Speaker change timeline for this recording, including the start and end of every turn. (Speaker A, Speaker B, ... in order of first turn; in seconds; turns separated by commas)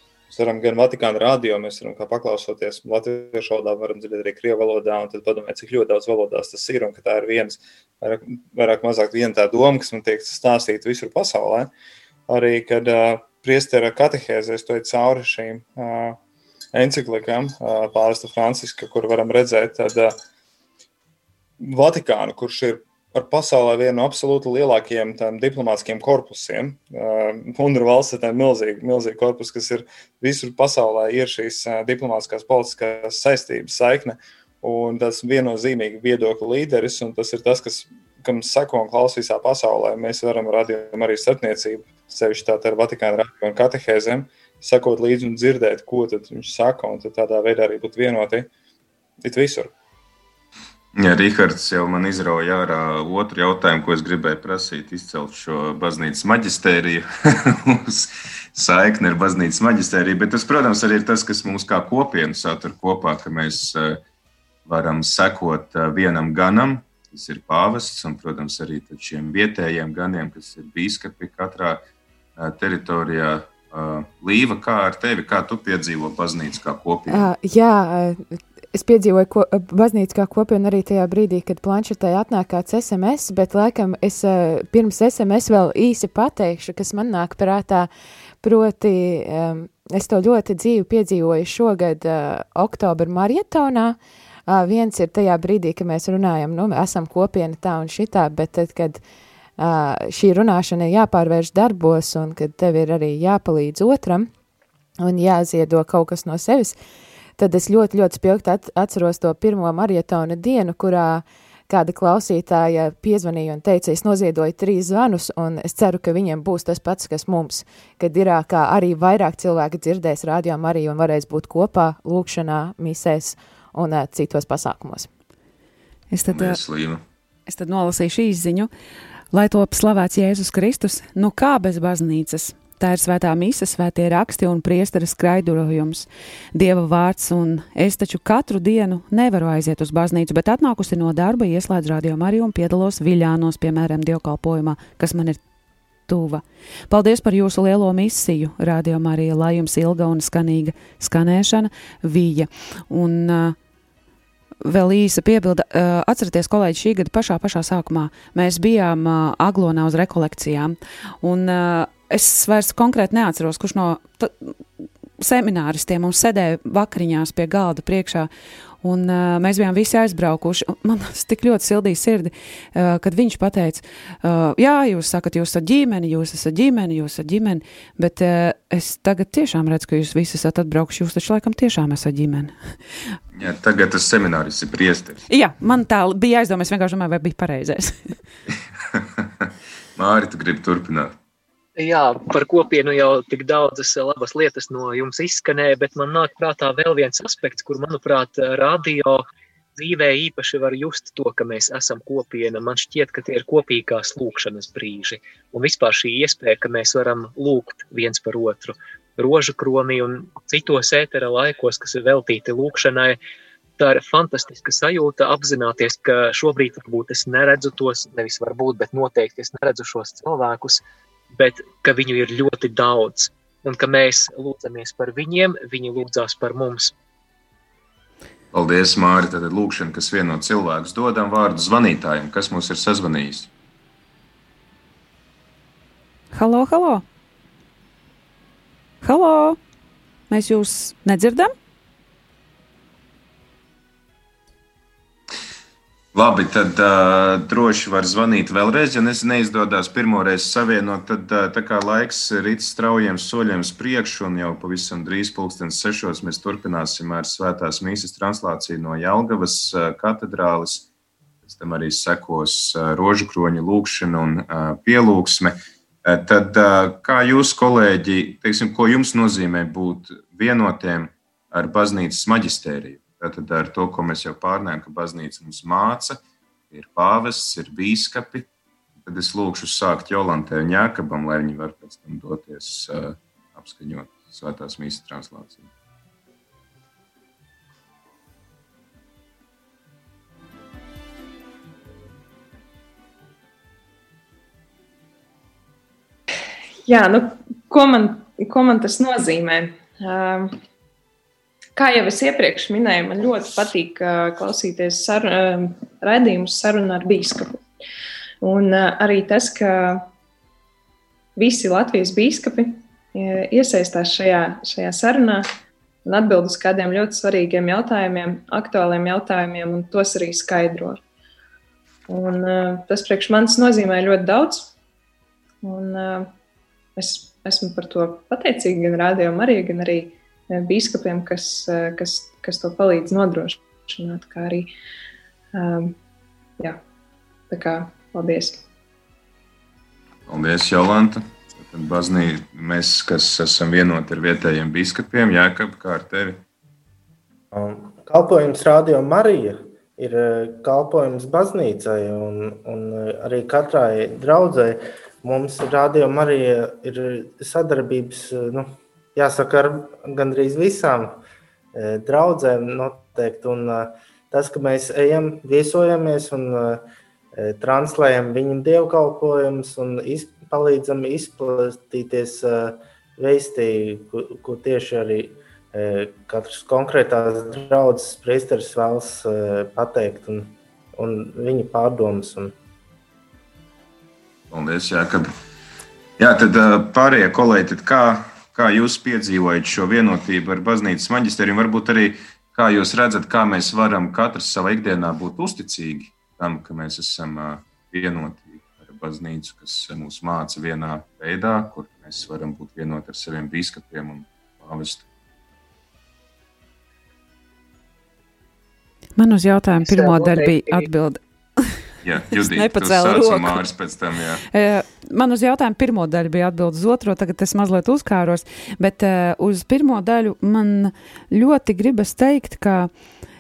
Speaker A: 0.3-11.7, Speaker A: 12.3-16.2, Speaker A: 16.7-20.1, Speaker A: 21.6-48.5, Speaker A: 49.2-49.7, Speaker B: 50.9-64.0, Speaker B: 64.7-71.8, Speaker B: 72.4-77.3, Speaker C: 77.1-87.9, Speaker C: 88.4-99.0, Speaker C: 99.6-104.3, Speaker C: 105.0-106.8, Speaker C: 107.4-125.1, Speaker D: 126.1-126.6, Speaker B: 126.3-127.0, Speaker D: 127.5-128.7, Speaker D: 129.3-145.4, Speaker D: 146.1-153.6, Speaker D: 154.6-164.5, Speaker D: 165.2-168.3, Speaker D: 168.8-182.6, Speaker B: 183.3-185.2, Speaker D: 185.3-188.2, Speaker B: 188.9-191.2, Speaker E: 191.8-199.2, Speaker E: 199.8-213.2, Speaker E: 213.8-220.8, Speaker E: 221.3-226.9, Speaker B: 228.5-233.5, Speaker D: 236.3-237.0, Speaker D: 239.0-239.6, Speaker D: 240.3-241.5, Speaker B: 246.1-260.9, Speaker B: 261.4-276.2, Speaker B: 276.7-278.5, Speaker B: 279.0-285.7, Speaker F: 296.9-300.6, Speaker F: 301.8-307.6, Speaker F: 308.4-310.1, Speaker F: 311.4-315.5, Speaker F: 316.0-321.0, Speaker F: 322.1-324.7, Speaker F: 325.6-326.3, Speaker F: 326.9-334.7, Speaker F: 335.5-335.9, Speaker F: 337.5-338.6, Speaker B: 340.3-346.4, Speaker G: 347.5-361.2, Speaker G: 361.7-366.8, Speaker G: 367.3-382.5, Speaker B: 384.5-385.3, Speaker B: 386.2-405.1, Speaker D: 409.2-411.8, Speaker E: 409.8-410.9, Speaker B: 412.0-414.4, Speaker D: 412.4-413.6, Speaker D: 414.5-422.9